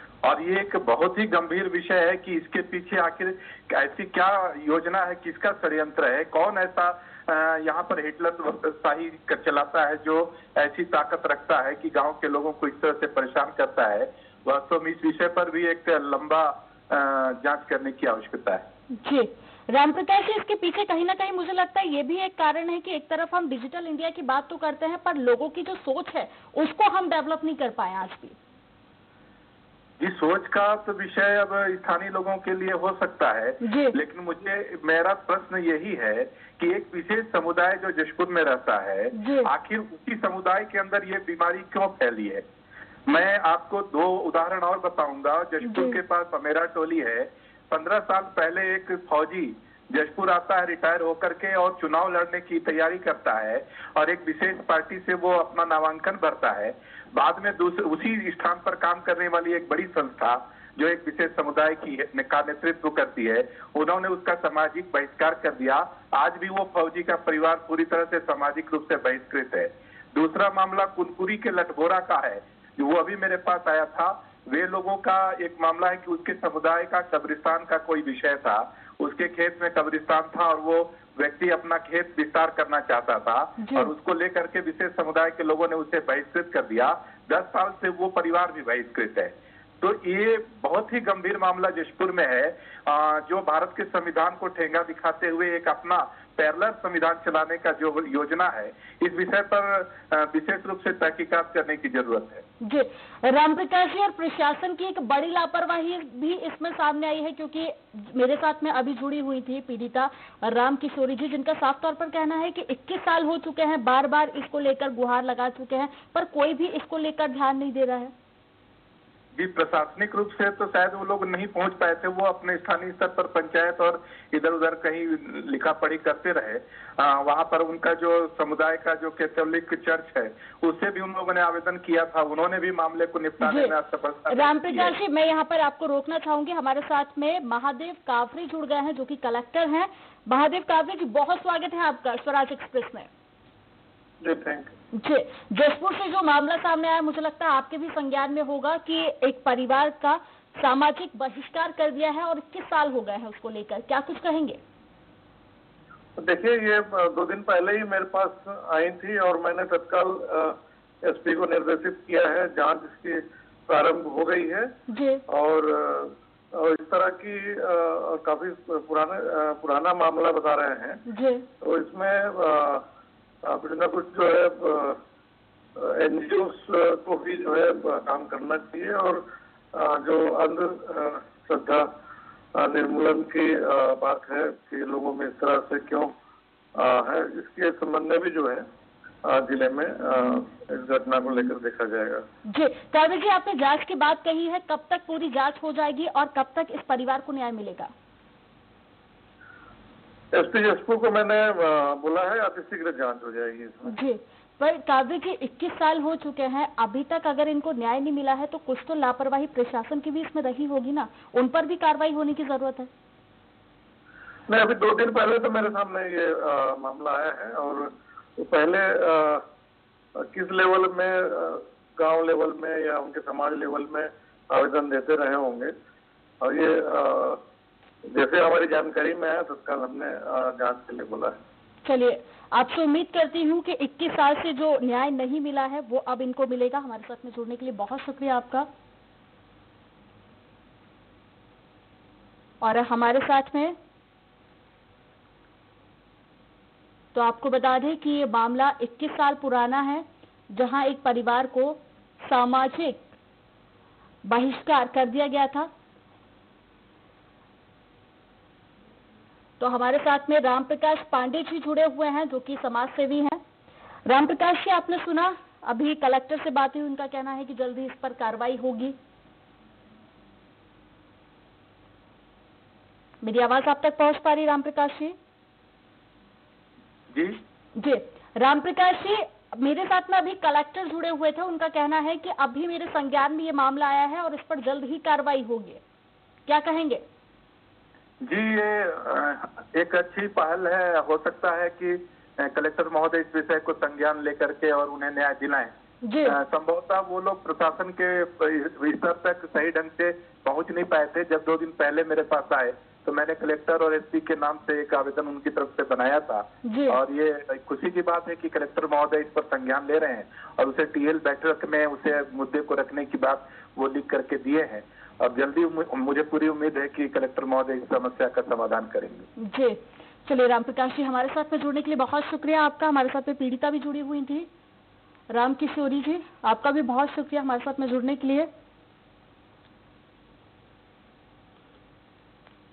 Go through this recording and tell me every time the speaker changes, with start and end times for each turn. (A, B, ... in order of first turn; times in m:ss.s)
0:00.2-0:18.6 A
0:19.0-0:28.4 B
0:30.0-0:42.4 A
0:33.6-0:34.0 B
0:39.2-0:39.5 B
0:43.1-1:42.4 A
0:45.6-0:46.0 B
1:23.6-1:23.9 B
1:42.6-1:58.1 B
1:59.4-2:15.0 A
2:13.4-2:13.7 B
2:14.3-2:23.1 B
2:24.2-2:24.7 C
2:24.9-2:34.6 B
2:36.2-2:44.7 C
2:44.9-2:45.2 B
2:45.3-2:51.0 C
2:51.1-2:51.4 B
2:51.6-2:52.8 C
2:53.4-2:55.0 C
2:55.8-3:01.9 C
3:02.6-3:06.1 C
3:06.8-3:08.6 C
3:09.2-3:12.2 C
3:12.5-3:17.9 B
3:20.3-3:24.0 C
3:23.9-3:32.9 B
3:34.5-3:39.4 C
3:40.2-3:45.7 C
3:46.4-3:47.4 C
3:48.1-3:51.4 C
3:51.8-3:58.7 B
4:02.6-4:03.8 B
4:07.1-4:13.1 B
4:14.2-4:15.7 B
4:19.6-4:23.4 B
4:24.1-4:29.0 B
4:33.2-4:35.2 B
4:37.1-4:37.4 A
4:37.8-4:45.8 B
4:46.5-4:47.0 B
4:48.2-4:55.7 A
4:56.0-4:56.4 B
4:56.3-5:19.3 A
5:06.6-5:07.0 B
5:19.4-5:24.5 B
5:25.3-5:28.5 B